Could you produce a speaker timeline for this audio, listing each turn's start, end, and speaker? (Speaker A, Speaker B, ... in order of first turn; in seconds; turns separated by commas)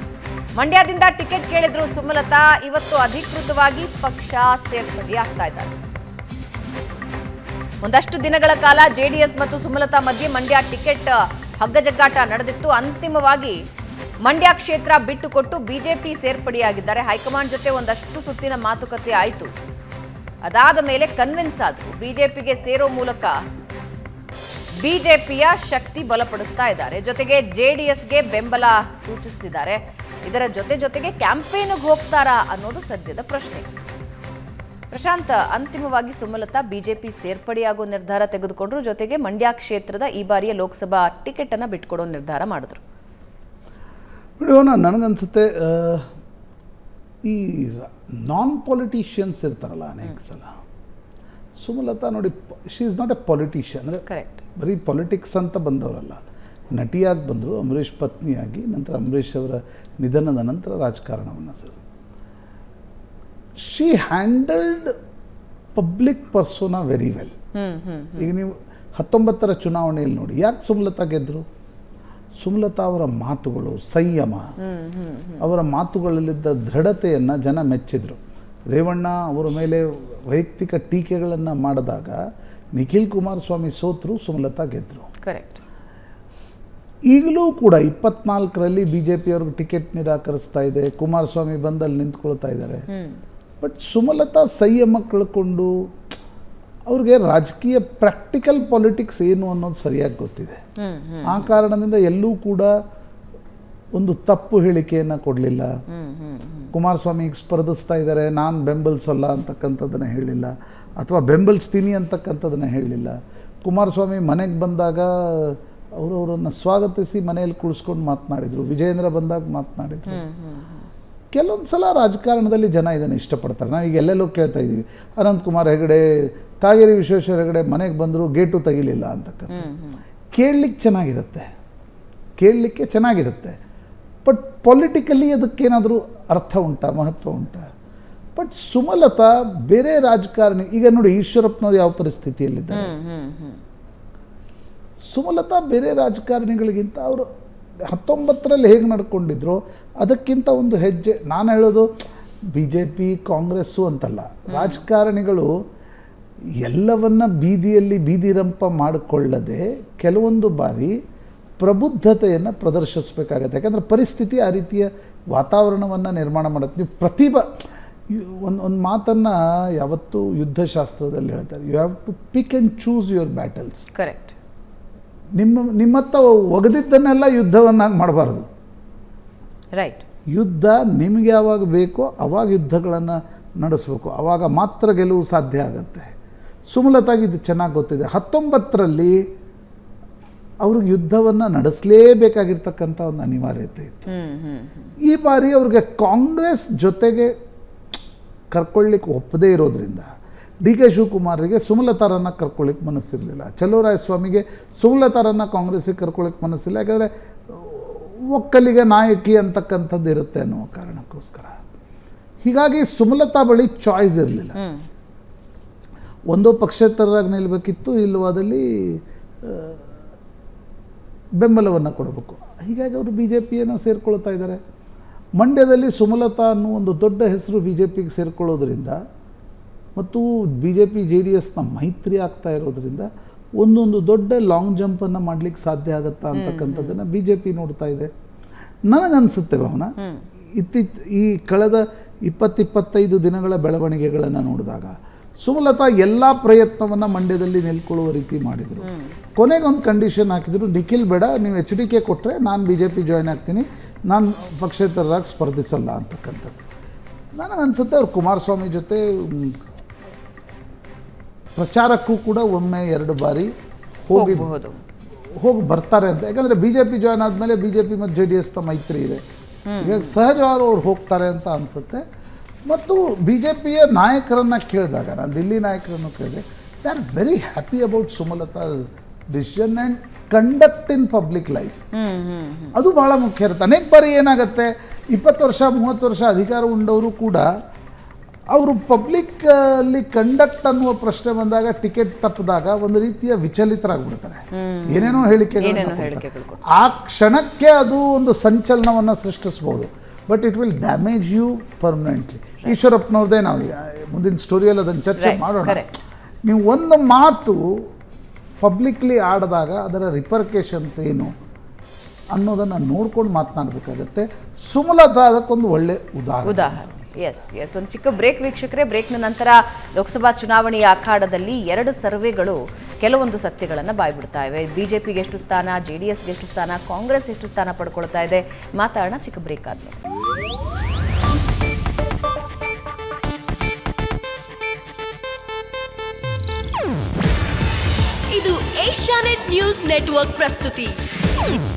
Speaker A: 0.6-5.7, Speaker A: 7.8-13.6, Speaker A: 14.2-19.5, Speaker A: 20.4-23.3, Speaker A: 24.8-33.7, Speaker A: 34.9-42.8, Speaker B: 44.4-46.1, Speaker B: 47.2-50.6, Speaker B: 51.6-54.0, Speaker A: 54.1-54.4, Speaker B: 54.6-61.8, Speaker B: 63.6-65.0, Speaker B: 65.8-67.3, Speaker A: 67.5-68.3, Speaker B: 68.2-71.5, Speaker B: 72.4-74.5, Speaker A: 74.6-75.4, Speaker B: 75.4-82.2, Speaker B: 82.8-85.1, Speaker A: 85.2-85.6, Speaker B: 87.1-92.9, Speaker A: 92.9-93.2, Speaker B: 93.6-95.7, Speaker B: 96.9-100.6, Speaker A: 100.8-101.5, Speaker B: 101.2-102.7, Speaker B: 104.0-105.8, Speaker A: 105.9-106.7, Speaker B: 106.7-120.2, Speaker A: 120.1-120.9, Speaker B: 121.3-129.7, Speaker A: 129.5-130.0, Speaker B: 130.3-131.5, Speaker B: 132.4-133.6, Speaker B: 134.2-137.7, Speaker B: 138.4-142.9, Speaker A: 142.7-143.6, Speaker B: 145.1-147.3, Speaker B: 147.9-151.9, Speaker B: 152.5-155.5, Speaker A: 154.5-154.8, Speaker B: 156.6-161.0, Speaker B: 161.6-173.8, Speaker A: 173.9-174.3, Speaker B: 175.4-178.5, Speaker A: 179.7-180.0, Speaker B: 180.3-186.1, Speaker B: 186.7-189.2, Speaker B: 190.6-194.1, Speaker A: 194.1-194.9, Speaker B: 195.0-197.3, Speaker B: 198.5-200.1, Speaker B: 200.6-211.6, Speaker B: 212.4-214.6, Speaker A: 214.6-214.8, Speaker B: 216.3-219.8, Speaker B: 221.4-224.6, Speaker B: 225.4-229.0, Speaker B: 230.0-238.1, Speaker A: 236.3-237.0, Speaker B: 238.9-239.9, Speaker A: 240.0-240.2, Speaker B: 240.6-256.6, Speaker A: 248.8-249.2, Speaker B: 257.4-259.6, Speaker B: 261.6-263.5, Speaker B: 264.0-264.5, Speaker A: 264.1-264.8, Speaker B: 265.3-269.2, Speaker A: 269.7-270.1, Speaker B: 269.8-272.0, Speaker B: 272.6-281.8, Speaker A: 281.9-282.7, Speaker B: 282.7-287.5, Speaker B: 288.5-305.9, Speaker A: 294.5-296.7, Speaker A: 305.2-305.9, Speaker B: 306.4-307.9, Speaker B: 308.6-311.3, Speaker B: 312.3-317.1, Speaker A: 316.4-330.0, Speaker C: 338.3-341.0